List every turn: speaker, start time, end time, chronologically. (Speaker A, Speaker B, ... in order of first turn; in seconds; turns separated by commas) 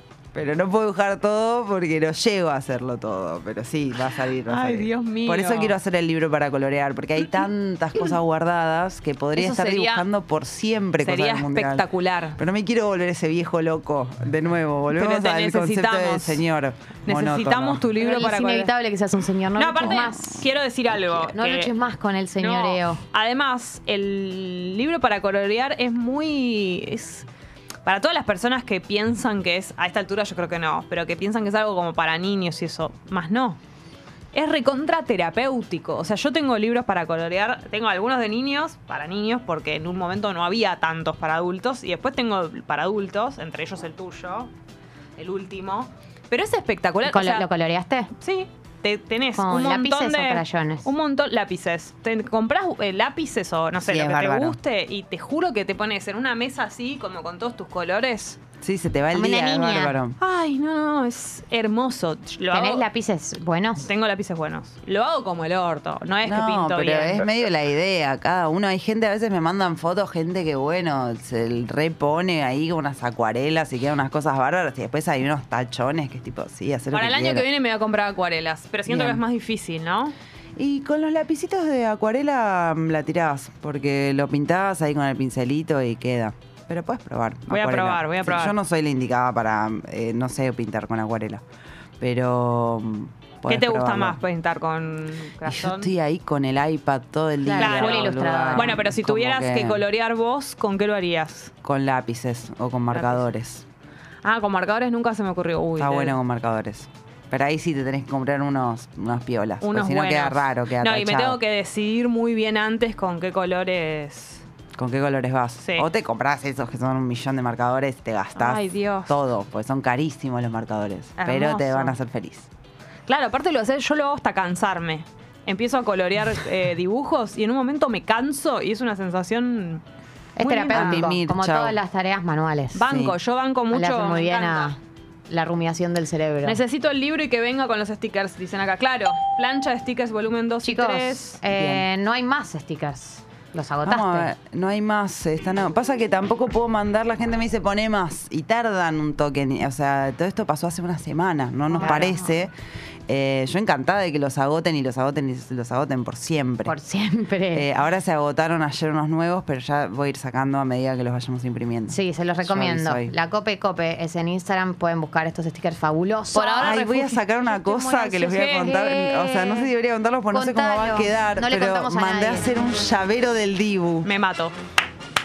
Speaker A: 0.3-17.9, Speaker B: 4.5-5.8, Speaker B: 9.3-10.1, Speaker B: 11.0-12.4, Speaker B: 14.9-16.4, Speaker B: 17.1-18.7, Speaker C: 18.0-23.0, Speaker B: 19.6-21.7, Speaker B: 22.4-27.3, Speaker B: 27.9-33.6, Speaker B: 34.3-44.5, Speaker B: 45.2-47.5, Speaker C: 47.0-48.1, Speaker B: 48.2-58.4, Speaker C: 49.4-50.9, Speaker A: 53.8-54.6, Speaker A: 58.6-60.2, Speaker C: 59.1-60.0, Speaker B: 60.2-62.8, Speaker C: 62.5-63.9, Speaker B: 63.8-67.2, Speaker A: 66.2-77.5, Speaker B: 76.9-80.1, Speaker A: 78.9-79.2, Speaker A: 80.6-91.4, Speaker B: 87.5-88.6, Speaker A: 92.0-94.2, Speaker B: 93.5-95.9, Speaker A: 95.5-99.8, Speaker C: 97.4-98.8, Speaker B: 97.6-101.5, Speaker A: 101.6-103.7, Speaker B: 102.9-103.2, Speaker B: 104.2-106.2, Speaker A: 105.8-111.4, Speaker B: 109.6-114.4, Speaker A: 114.8-122.5, Speaker B: 115.6-115.9, Speaker B: 118.4-119.2, Speaker B: 121.2-122.0, Speaker B: 123.1-129.8, Speaker C: 130.4-132.8, Speaker B: 130.4-131.1, Speaker A: 130.7-131.8, Speaker B: 132.7-134.8, Speaker A: 132.9-133.2, Speaker C: 133.7-134.8, Speaker C: 135.3-136.6, Speaker B: 136.4-141.4, Speaker C: 140.6-144.3, Speaker A: 141.5-141.8, Speaker A: 143.8-152.5, Speaker C: 151.7-152.3, Speaker A: 153.1-156.7, Speaker C: 156.7-157.7, Speaker A: 157.5-163.1, Speaker C: 161.9-167.0, Speaker B: 166.3-169.5, Speaker A: 166.6-174.1, Speaker C: 168.3-169.7, Speaker C: 170.3-172.5, Speaker B: 174.0-174.6